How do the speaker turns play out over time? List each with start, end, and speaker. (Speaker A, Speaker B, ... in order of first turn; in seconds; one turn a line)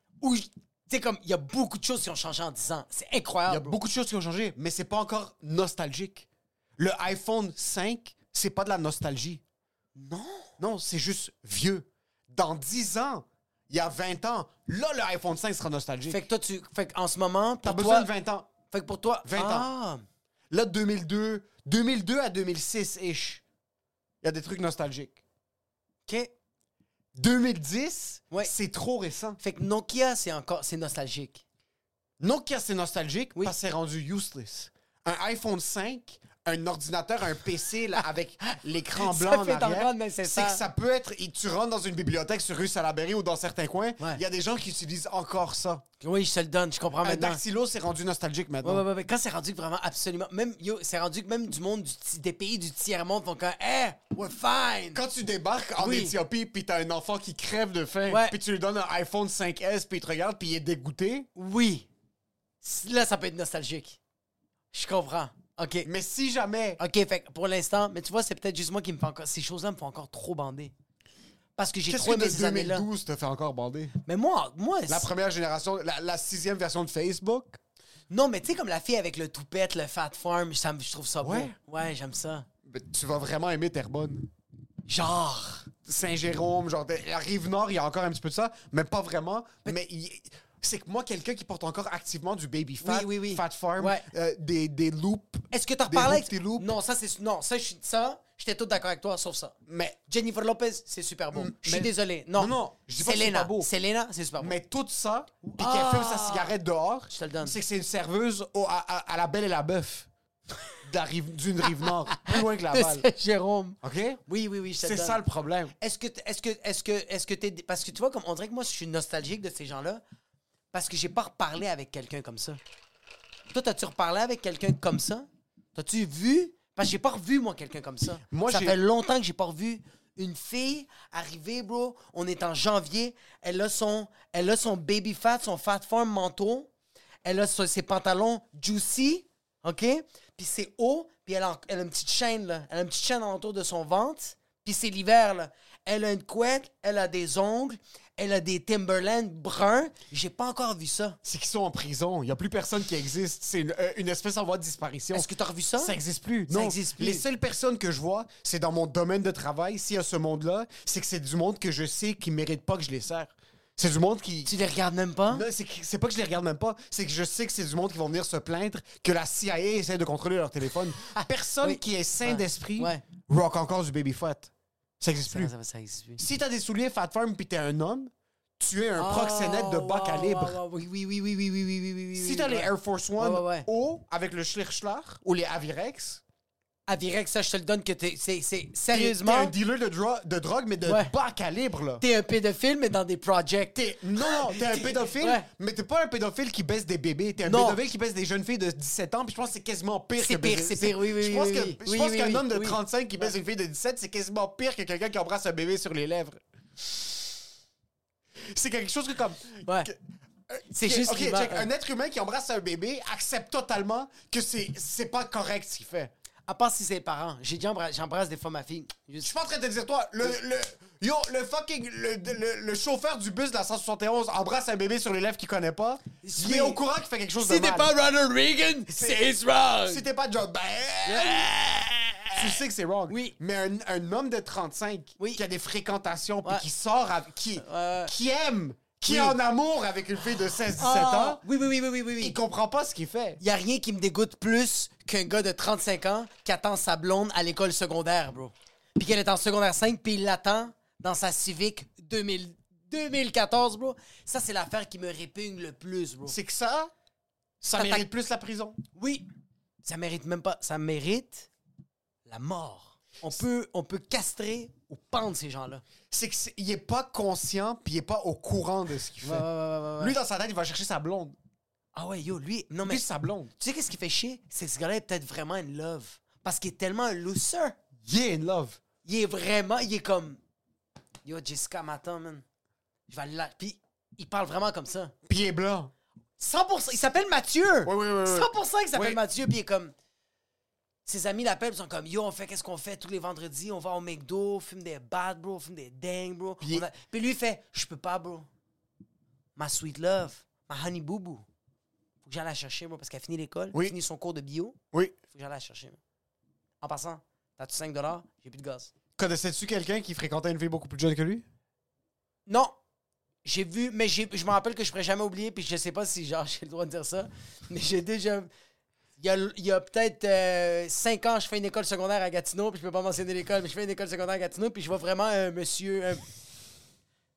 Speaker A: 0.2-3.8
Speaker B: 3.5-6.3
Speaker B: 6.8-9.4
Speaker A: 9.9-10.5
Speaker B: 10.6-16.2
Speaker A: 16.1-18.1
Speaker B: 17.6-18.5
Speaker A: 18.7-20.0
Speaker B: 19.2-19.7
Speaker B: 20.5-23.4
Speaker B: 24.2-25.2
Speaker A: 26.1-26.3
Speaker B: 27.1-29.4
Speaker A: 29.4-31.4
Speaker B: 32.2-45.8
Speaker A: 38.0-40.6
Speaker A: 46.0-47.4
Speaker B: 47.0-48.8
Speaker A: 48.6-55.0
Speaker B: 54.9-61.3
Speaker A: 55.8-56.1
Speaker A: 58.1-58.4
Speaker A: 61.3-61.9
Speaker A: 62.6-64.0
Speaker A: 64.7-65.9
Speaker B: 65.8-66.8
Speaker A: 66.8-70.7
Speaker A: 71.6-72.9
Speaker B: 71.9-74.0
Speaker A: 74.0-75.1
Speaker B: 74.9-77.6
Speaker A: 78.1-82.5
Speaker B: 81.2-81.5
Speaker B: 82.7-84.3
Speaker A: 84.9-85.7
Speaker B: 85.8-96.7
Speaker A: 92.8-94.1
Speaker A: 95.5-99.5
Speaker B: 99.7-100.0
Speaker A: 100.1-104.5
Speaker B: 101.3-103.7
Speaker B: 104.4-110.1
Speaker A: 105.5-106.5
Speaker A: 107.1-107.5
Speaker B: 110.8-113.0
Speaker A: 112.1-115.2
Speaker B: 113.8-114.2
Speaker B: 114.8-115.7
Speaker A: 115.8-120.0
Speaker A: 120.7-122.6
Speaker A: 123.5-136.7
Speaker B: 128.3-128.8
Speaker A: 137.2-151.2
Speaker B: 151.2-164.5
Speaker A: 155.1-155.9
Speaker A: 156.5-157.2
Speaker A: 164.4-165.4
Speaker B: 165.3-175.5
Speaker A: 171.1-173.0
Speaker A: 175.2-176.2
Speaker B: 176.2-180.6
Speaker A: 178.9-183.7
Speaker B: 182.1-186.2
Speaker A: 186.9-189.5
Speaker B: 188.9-192.0
Speaker A: 190.8-191.1
Speaker A: 192.0-195.5
Speaker B: 193.7-206.4
Speaker A: 197.4-197.8
Speaker A: 200.2-203.3
Speaker B: 208.5-210.0
Speaker B: 210.5-216.1
Speaker A: 210.7-211.7
Speaker A: 216.5-219.3
Speaker B: 219.2-227.9
Speaker A: 226.2-226.8
Speaker A: 227.4-230.1
Speaker B: 228.9-229.3
Speaker B: 229.8-231.5
Speaker A: 231.0-232.6
Speaker B: 232.3-241.4
Speaker A: 233.1-233.3
Speaker A: 237.6-238.1
Speaker A: 239.0-239.4
Speaker A: 240.8-242.4
Speaker B: 242.2-243.4
Speaker A: 243.4-256.4
Speaker B: 256.2-256.9
Speaker B: 257.6-258.8
Speaker A: 257.7-258.1
Speaker A: 258.9-259.3
Speaker A: 259.8-261.5
Speaker A: 262.2-265.8
Speaker B: 266.1-269.4
Speaker A: 269.2-270.1
Speaker B: 270.0-271.4
Speaker A: 271.9-273.0
Speaker B: 272.8-273.5
Speaker A: 273.6-277.8
Speaker B: 278.0-278.8
Speaker A: 279.0-280.4
Speaker A: 281.2-282.4
Speaker A: 283.1-285.1
Speaker B: 285.2-285.9
Speaker A: 286.4-289.9
Speaker B: 287.8-289.2
Speaker A: 291.1-298.5
Speaker B: 296.6-296.9
Speaker A: 299.6-301.4
Speaker A: 302.2-304.8
Speaker A: 305.3-306.0
Speaker A: 306.8-308.9
Speaker B: 309.2-311.4
Speaker A: 312.5-312.8
Speaker A: 313.4-318.5
Speaker A: 319.2-326.2